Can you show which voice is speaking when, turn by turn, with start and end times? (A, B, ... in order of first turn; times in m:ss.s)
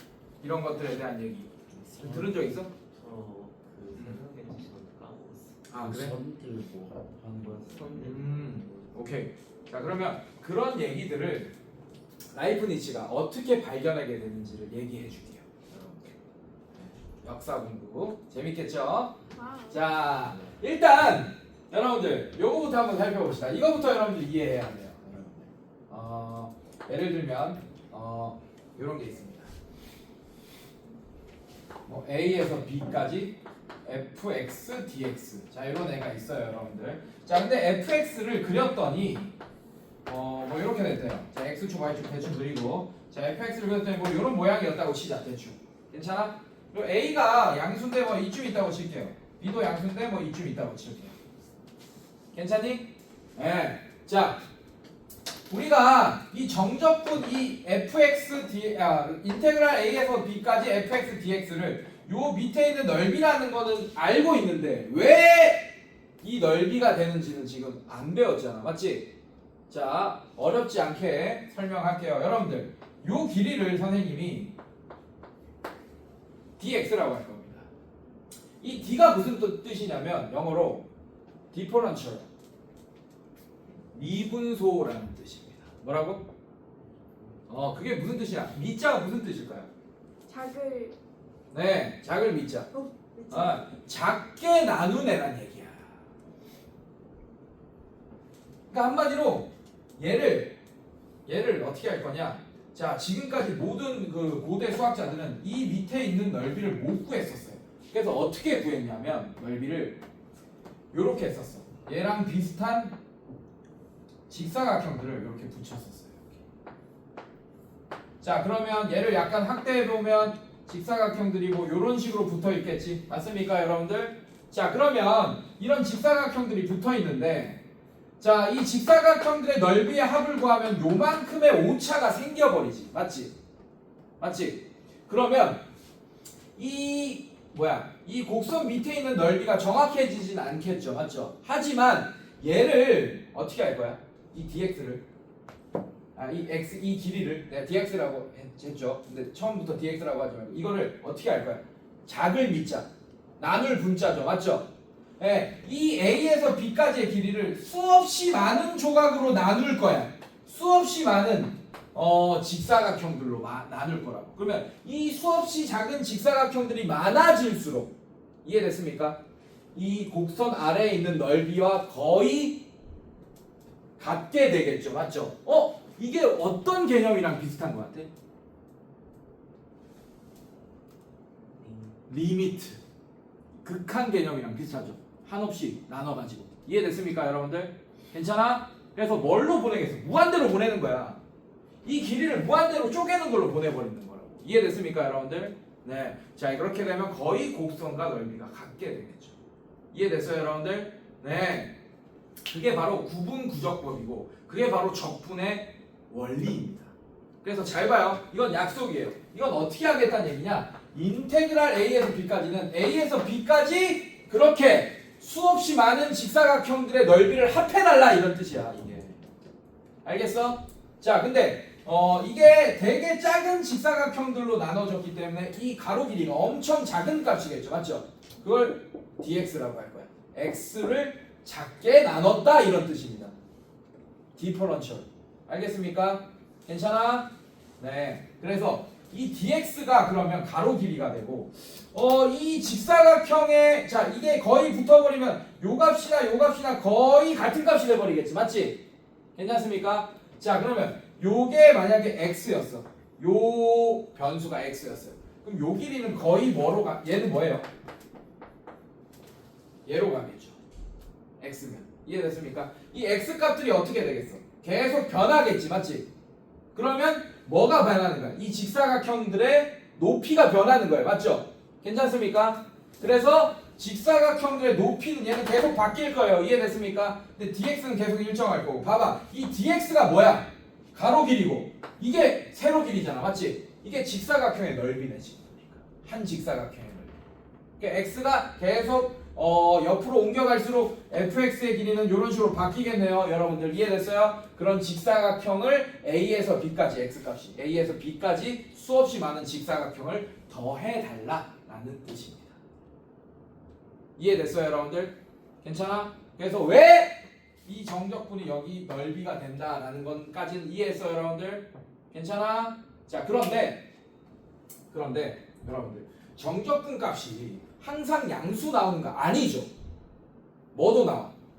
0:00.4-0:02.7 A
0:01.7-0:09.2 B
0:04.0-0:04.2 A
0:05.7-0:06.2 A
0:08.0-0:11.5 A
0:12.3-0:15.8 A
0:15.7-0:16.1 B
0:17.1-0:19.2 A
0:19.3-0:19.9 C
0:19.7-0:25.2 A
0:20.2-0:20.6 B
0:25.0-0:25.5 B
0:25.9-0:29.5 A
0:31.9-0:39.3 A
0:40.1-0:51.2 A
0:52.3-0:54.4 A
0:55.5-1:05.7 A
1:06.2-1:09.1 A
1:09.7-1:14.5 A
1:16.6-1:17.7 A
1:18.6-1:20.9 A
1:21.5-1:22.3 A
1:23.9-1:26.3 A
1:27.0-1:27.4 B
1:27.5-1:29.7 A
1:30.3-1:31.0 C
1:31.5-1:32.7 A
1:32.7-1:33.7 C
1:33.3-1:35.9 A
1:38.7-1:40.6 A
1:41.3-1:50.0 A
1:50.9-1:53.0 A
1:54.3-1:56.4 A
1:58.2-2:07.6 A
2:08.2-2:13.4 A
2:14.2-2:15.6 A
2:16.6-2:25.0 A
2:26.2-2:32.9 A
2:33.4-2:47.9 A
2:48.4-2:49.2 A
2:49.7-2:52.6 A
2:54.0-2:58.1 A
3:01.6-3:02.0 B
3:02.1-3:02.8 A
3:03.6-3:11.2 A
3:11.8-3:19.4 A
3:19.9-3:21.7 A
3:22.5-3:39.2 A
3:40.0-3:53.3 A
3:54.4-4:08.8 A
4:09.4-4:17.7 A
4:19.9-4:20.6 A
4:21.4-4:26.1 A
4:26.7-4:47.2 A
4:47.8-5:02.6 A
5:04.2-5:13.8 A
5:14.9-5:19.7 A
5:20.7-5:21.3 A